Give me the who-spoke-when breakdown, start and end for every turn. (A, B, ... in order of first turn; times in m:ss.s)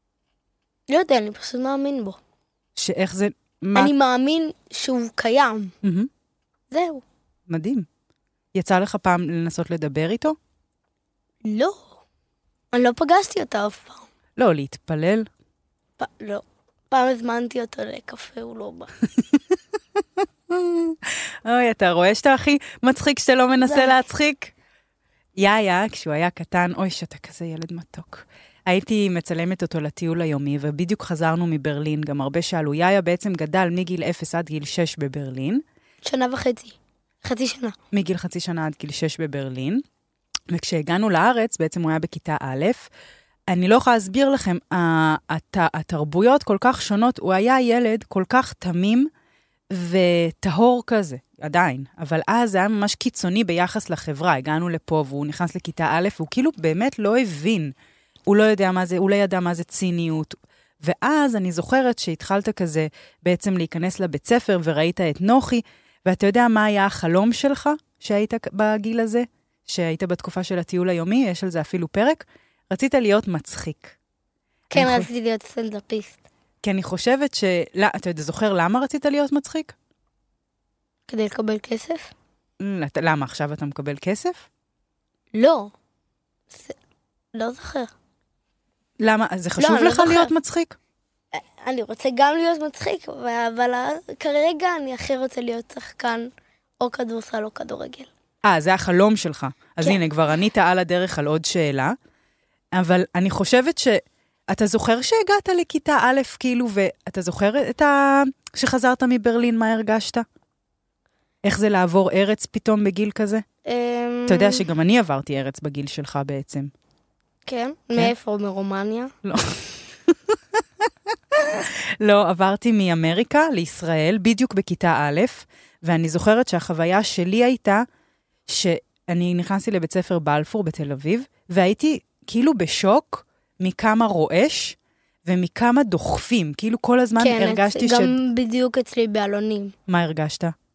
0:00.9-0:02.2 A
0:02.8-0:03.9 B
0:03.8-0:05.7 A
0:05.8-0:06.1 B
0:06.7-0:07.0 A
0:07.5-0:07.9 B
0:08.5-0:10.4 B
0:11.4-0:11.9 A
0:12.7-0:14.1 A
0:14.4-0:15.3 B
0:16.0-0:18.9 A
0:19.2-0:24.5 B
0:23.6-0:23.9 A
0:25.4-0:35.6 B
0:36.0-0:37.8 A
0:37.9-0:39.8 B
0:40.5-0:42.9 B
0:43.5-0:49.1 B
0:49.7-0:57.8 B
0:58.3-1:14.0 B
1:14.7-1:16.2 A
1:14.7-1:15.1 B
1:16.6-1:19.7 B
1:21.1-1:22.1 A
1:22.6-1:24.4 B
1:25.3-1:25.7 A
1:27.3-1:27.9 A
1:29.0-1:30.8 B
1:29.6-1:30.3 A
1:31.3-1:38.1 A
1:38.4-1:42.0 B
1:42.7-1:50.2 B
1:51.4-1:53.4 B
1:53.7-1:54.6 A
1:54.3-1:56.7 B
1:57.5-1:59.1 A
1:59.2-2:07.9 B
2:08.5-2:18.2 B
2:17.2-2:19.7 A
2:19.9-2:20.6 B